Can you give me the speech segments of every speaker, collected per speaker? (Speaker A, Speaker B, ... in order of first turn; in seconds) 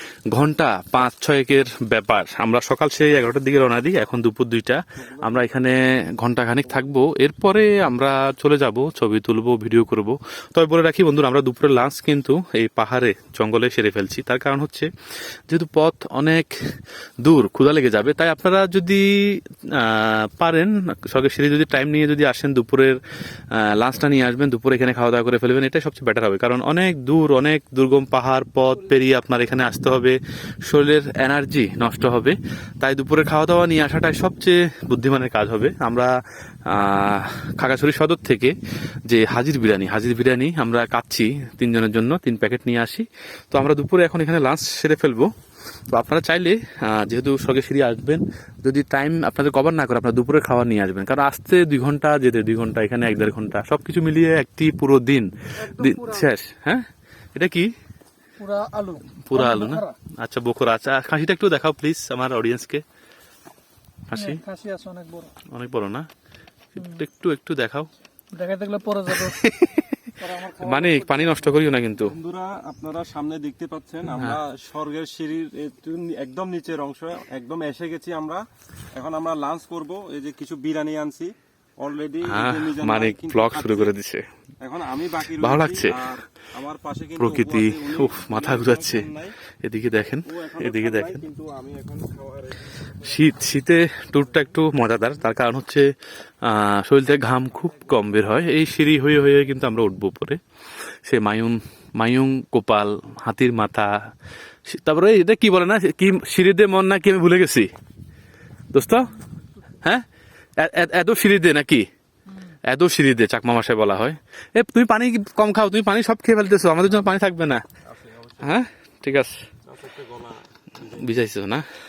Speaker A: 0.3-14.9, 15.5-23.0, 23.5-36.1, 36.7-38.5, 39.1-45.3, 45.9-57.7, 59.2-62.8, 64.1-64.4, 65.5-66.1, 66.8-67.9, 69.1-72.1, 74.1-74.4, 82.2-84.2, 85.3-86.0, 87.2-89.1, 89.6-91.2, 93.0-95.9, 96.4-100.4, 101.0-103.9, 104.7-107.7, 108.7-109.2, 109.7-110.0, 110.6-117.6, 118.4-119.4, 120.8-121.7
Speaker B: 5.0-5.7, 72.0-78.4, 78.9-84.0, 84.6-89.4, 90.2-94.7, 97.6-98.2, 117.9-118.6, 119.7-121.1
Speaker C: 55.6-56.3, 58.4-60.0, 64.1-65.3, 68.3-69.5, 70.2-71.6